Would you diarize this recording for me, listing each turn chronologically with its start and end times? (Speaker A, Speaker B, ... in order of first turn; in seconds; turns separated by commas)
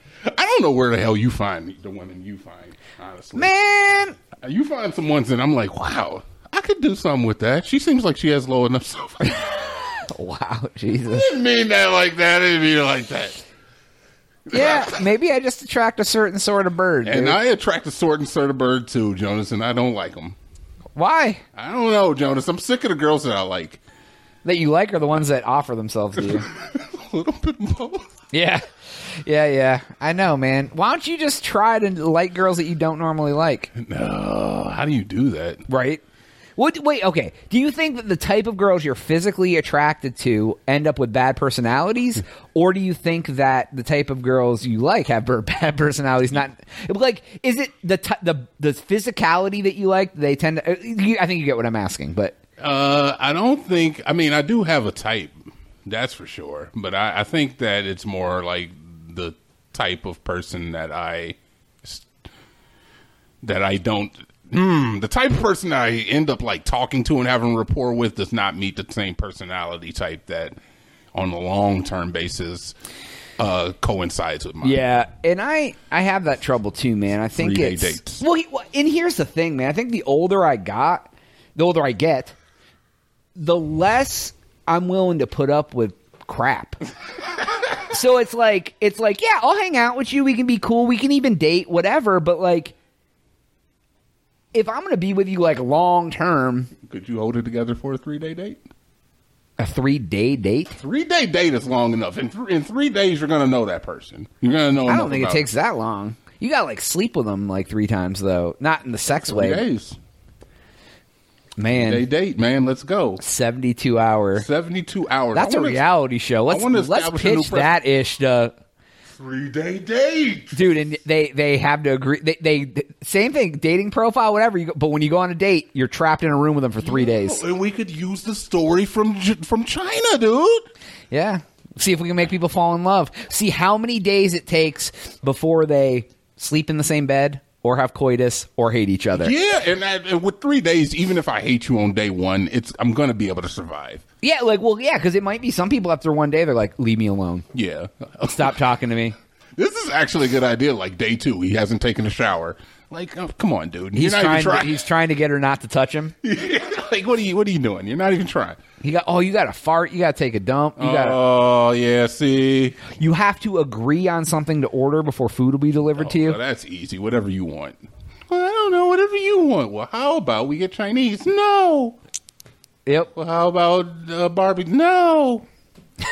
Speaker A: 0.3-3.5, Speaker B: 3.4-4.2, Speaker A: 4.4-9.6, Speaker B: 10.1-11.3, Speaker A: 11.1-13.4, Speaker A: 14.5-15.0, Speaker B: 14.5-17.4, Speaker A: 17.0-20.4, Speaker B: 20.9-21.4, Speaker A: 21.5-23.8, Speaker B: 24.4-26.5, Speaker A: 26.2-28.1, Speaker B: 28.3-33.7, Speaker A: 33.8-35.6, Speaker B: 35.7-36.0, Speaker B: 36.6-52.3, Speaker A: 52.6-62.1, Speaker A: 63.4-70.6, Speaker A: 71.1-72.8, Speaker A: 73.4-74.8, Speaker B: 74.6-82.3, Speaker A: 77.3-78.2, Speaker B: 83.3-86.8, Speaker B: 87.8-92.8, Speaker B: 94.5-96.7, Speaker A: 96.9-98.6, Speaker B: 99.6-100.8, Speaker A: 100.8-105.5, Speaker B: 104.8-109.6, Speaker A: 109.1-110.0, Speaker B: 111.6-112.0, Speaker A: 111.7-113.2, Speaker B: 113.2-114.5, Speaker A: 114.3-115.8, Speaker B: 115.3-118.5, Speaker A: 116.5-117.7, Speaker A: 119.2-120.6, Speaker B: 120.5-127.4, Speaker A: 126.8-130.7, Speaker B: 131.1-139.3, Speaker A: 139.1-144.0, Speaker B: 144.2-147.4, Speaker A: 147.5-148.5, Speaker B: 148.2-149.1, Speaker A: 149.6-154.8, Speaker B: 153.9-156.1, Speaker A: 156.2-158.6, Speaker B: 158.8-161.2, Speaker A: 160.8-162.8, Speaker B: 162.9-166.4, Speaker A: 165.9-172.0, Speaker B: 172.8-173.1, Speaker A: 173.1-175.4